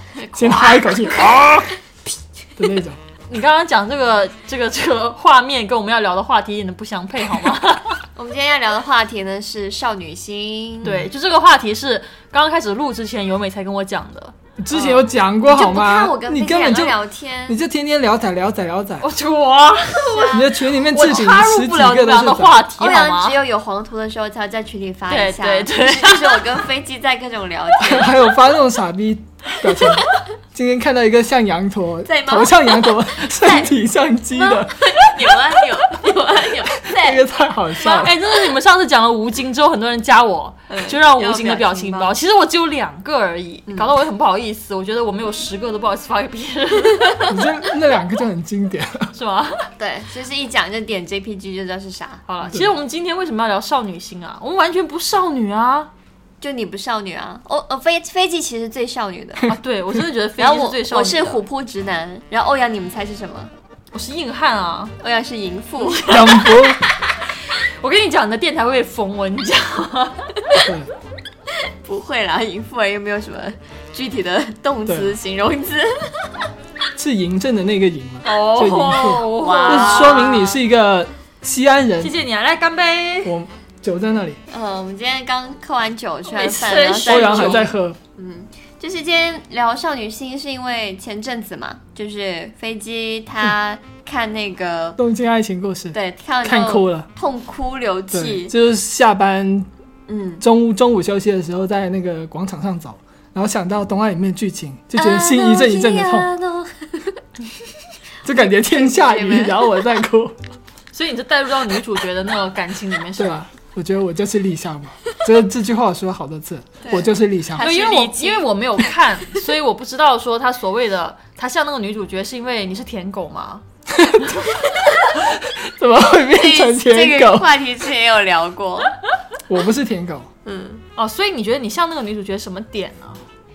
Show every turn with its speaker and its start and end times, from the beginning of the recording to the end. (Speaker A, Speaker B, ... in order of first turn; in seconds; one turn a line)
Speaker A: 0.1-1.4
Speaker B: 0.4-1.7
Speaker B: 2.6-3.0
Speaker C: 3.3-8.0
Speaker A: 8.2-10.9
Speaker B: 10.8-11.1
Speaker C: 10.8-14.4
Speaker B: 14.6-16.9
Speaker A: 14.8-17.6
Speaker B: 17.5-19.1
Speaker C: 19.0-23.4
Speaker A: 20.0-20.5
Speaker B: 20.3-22.8
Speaker A: 22.8-28.1
Speaker C: 25.1-26.6
Speaker B: 27.8-35.1
Speaker A: 32.1-33.7
Speaker A: 34.4-37.2
Speaker B: 36.8-38.1
Speaker C: 37.8-47.4
Speaker A: 40.7-42.1
Speaker A: 43.7-43.9
Speaker B: 47.3-49.1
Speaker C: 49.1-49.7
Speaker A: 49.8-52.2
Speaker C: 52.3-55.9
Speaker A: 56.4-59.5
Speaker C: 59.5-61.4
Speaker A: 60.4-63.5
Speaker C: 63.9-64.9
Speaker A: 65.0-66.5
Speaker C: 65.8-66.4
Speaker B: 66.1-66.8
Speaker C: 67.6-70.4
Speaker B: 70.6-70.9
Speaker A: 71.8-76.3
Speaker B: 74.9-75.2
Speaker B: 77.0-82.1
Speaker C: 78.2-80.6
Speaker A: 79.3-80.5
Speaker C: 82.0-83.3
Speaker B: 83.2-84.4
Speaker A: 84.5-95.0
Speaker C: 86.3-87.7
Speaker B: 87.1-88.0
Speaker B: 95.0-97.1
Speaker A: 95.9-98.5
Speaker B: 98.1-99.7
Speaker A: 100.1-100.4
Speaker B: 100.4-106.3
Speaker A: 105.0-107.2
Speaker B: 108.2-110.4
Speaker A: 108.4-109.6
Speaker C: 110.9-113.4
Speaker B: 113.2-117.7
Speaker A: 116.8-118.5
Speaker C: 117.6-123.6
Speaker B: 123.9-124.6
Speaker B: 125.2-127.5
Speaker A: 126.3-128.9
Speaker B: 129.5-130.3
Speaker A: 130.4-130.8
Speaker C: 131.0-133.2